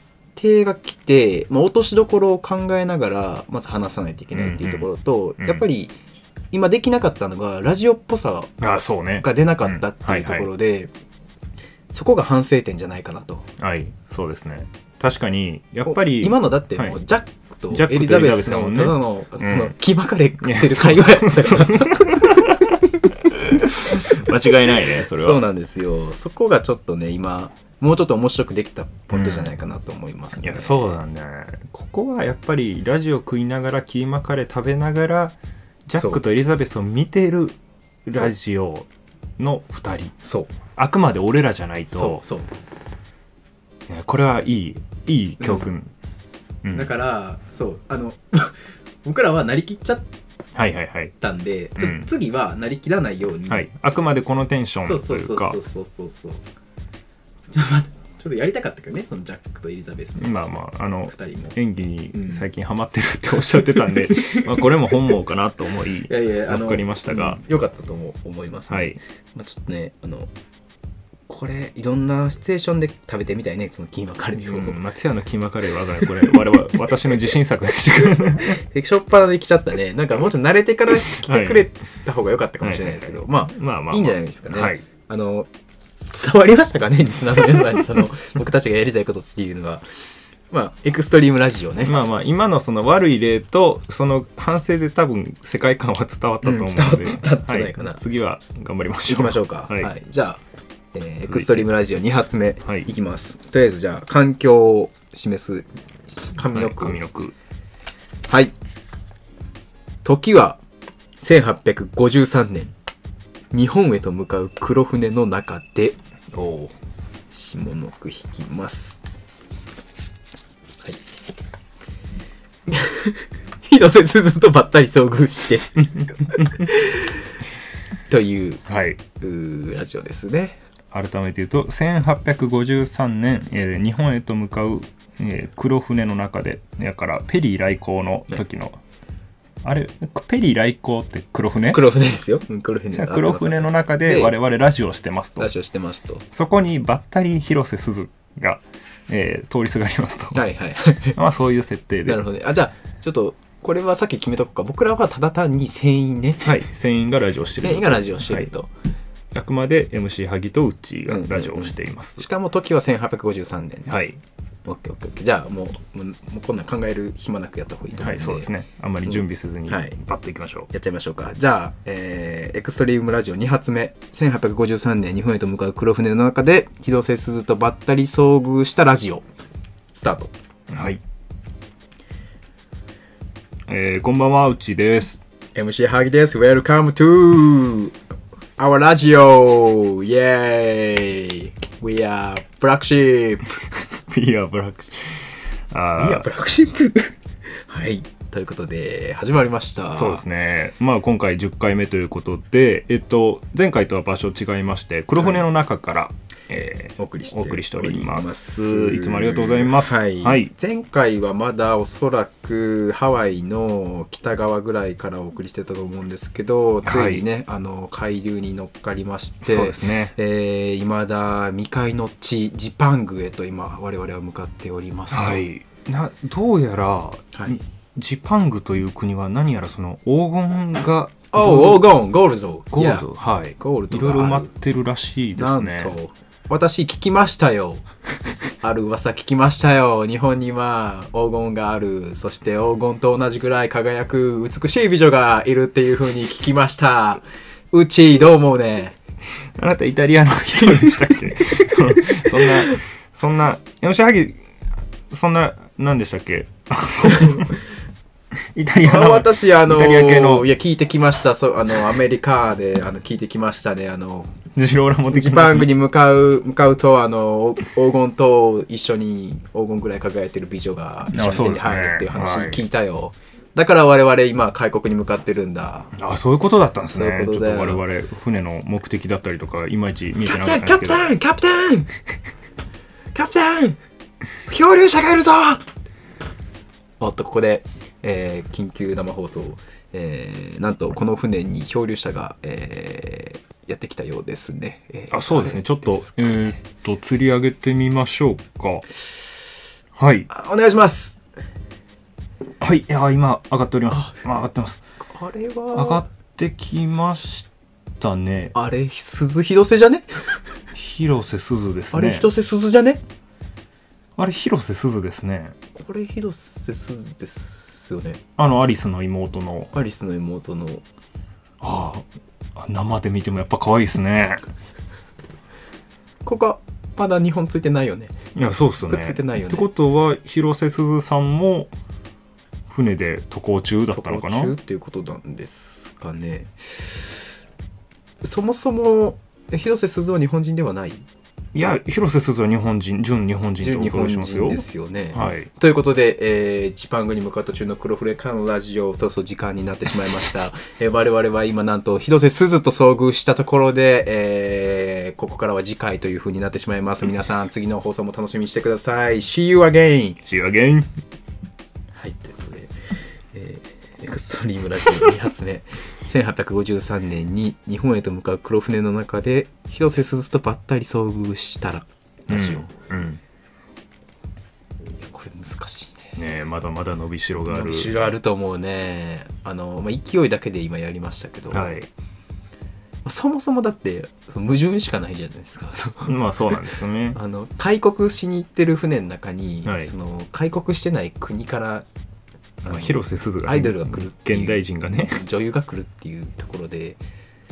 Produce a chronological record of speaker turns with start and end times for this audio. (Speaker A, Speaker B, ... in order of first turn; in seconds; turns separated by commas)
Speaker A: 0.3-5.9, Speaker B: 4.3-4.9, Speaker B: 5.4-5.6, Speaker A: 6.5-8.6, Speaker B: 8.6-10.5, Speaker A: 9.2-10.9, Speaker A: 11.9-13.5, Speaker B: 13.6-17.0, Speaker A: 15.8-22.5, Speaker B: 17.7-19.7, Speaker B: 20.4-25.4, Speaker A: 25.1-31.0, Speaker B: 29.1-29.5, Speaker B: 30.4-35.4, Speaker B: 35.9-40.1, Speaker A: 35.9-36.2, Speaker A: 40.2-40.5, Speaker B: 40.7-42.2, Speaker A: 41.9-42.5, Speaker B: 43.9-45.9, Speaker A: 45.4-45.7, Speaker B: 46.6-46.9, Speaker A: 46.7-50.0, Speaker B: 50.5-51.1, Speaker A: 51.2-53.7, Speaker B: 51.8-52.1, Speaker B: 53.5-55.6, Speaker A: 54.8-56.4, Speaker A: 57.5-60.3, Speaker B: 60.2-67.4, Speaker A: 61.1-61.5, Speaker A: 62.1-62.4, Speaker A: 63.9-64.6, Speaker A: 66.1-70.3, Speaker B: 68.7-69.0, Speaker A: 71.3-74.8, Speaker B: 74.3-78.6, Speaker A: 78.3-85.5, Speaker B: 81.0-81.7, Speaker B: 82.6-84.8, Speaker A: 86.1-89.8, Speaker A: 90.5-91.9, Speaker B: 91.8-99.9, Speaker A: 96.4-98.0, Speaker A: 99.1-100.4, Speaker A: 100.9-107.0, Speaker B: 101.2-101.7, Speaker B: 106.5-107.3, Speaker A: 108.3-108.5, Speaker A: 110.0-110.6, Speaker A: 111.2-112.7, Speaker A: 113.5-116.0, Speaker B: 116.3-116.7, Speaker A: 117.3-119.0, Speaker A: 122.7-127.2, Speaker B: 126.4-126.7, Speaker A: 128.1-128.6, Speaker B: 128.7-129.0, Speaker A: 129.2-130.6, Speaker B: 130.9-138.8, Speaker B: 139.6-141.9, Speaker A: 141.7-144.3, Speaker B: 142.9-145.5, Speaker A: 145.4-146.2, Speaker B: 146.3-150.4, Speaker A: 150.3-151.2, Speaker B: 151.1-152.2, Speaker A: 152.0-156.7, Speaker B: 156.4-158.5, Speaker A: 157.6-158.7, Speaker B: 159.3-162.3, Speaker A: 161.1-164.0, Speaker B: 163.9-164.2, Speaker A: 164.6-168.5, Speaker B: 167.9-170.7, Speaker A: 169.0-170.0, Speaker A: 170.7-179.2, Speaker A: 179.9-180.3, Speaker B: 180.7-181.0, Speaker B: 183.7-185.2, Speaker A: 185.5-188.0, Speaker A: 188.6-193.6, Speaker B: 193.9-196.3, Speaker A: 196.0-200.2, Speaker B: 199.9-210.5, Speaker A: 205.2-205.4, Speaker A: 207.0-225.4, Speaker B: 216.8-217.2, Speaker B: 219.4-220.1, Speaker B: 225.1-232.0, Speaker A: 227.3-227.6, Speaker A: 231.3-234.5, Speaker B: 232.7-235.9, Speaker A: 235.3-237.8, Speaker A: 238.6-248.9, Speaker B: 249.5-254.4, Speaker A: 252.4-252.7, Speaker B: 255.1-257.6, Speaker A: 257.1-257.4, Speaker B: 258.5-260.5, Speaker A: 258.8-264.3, Speaker B: 264.5-265.7, Speaker A: 265.1-275.9, Speaker B: 271.1-272.6, Speaker B: 275.9-281.1, Speaker A: 276.9-277.8, Speaker A: 280.2-281.9, Speaker A: 283.1-283.8, Speaker A: 284.5-285.6, Speaker A: 287.0-296.6, Speaker B: 295.1-298.9, Speaker B: 299.9-300.3, Speaker A: 300.3-301.2, Speaker B: 302.6-304.8, Speaker A: 303.9-304.4, Speaker A: 305.0-306.1, Speaker B: 305.7-307.5, Speaker B: 308.0-308.5, Speaker A: 308.5-310.4, Speaker B: 310.7-312.3, Speaker A: 311.9-313.0, Speaker B: 314.1-315.6, Speaker A: 315.7-318.2, Speaker B: 318.4-319.7, Speaker A: 319.7-320.8, Speaker B: 321.6-324.4, Speaker A: 326.2-328.1, Speaker B: 328.3-331.7, Speaker A: 328.9-329.7, Speaker B: 332.7-334.5, Speaker A: 333.9-337.4, Speaker A: 338.2-341.1, Speaker B: 341.5-345.5, Speaker A: 343.6-360.2, Speaker B: 360.2-360.9, Speaker A: 361.9-362.7, Speaker A: 363.3-372.7, Speaker B: 372.3-373.2, Speaker A: 375.0-376.1, Speaker B: 376.1-378.1, Speaker A: 377.4-381.8, Speaker B: 381.5-381.9, Speaker A: 383.0-386.6, Speaker B: 386.0-387.2, Speaker A: 387.1-391.9, Speaker B: 389.6-389.9, Speaker A: 392.6-397.0, Speaker B: 392.6-395.2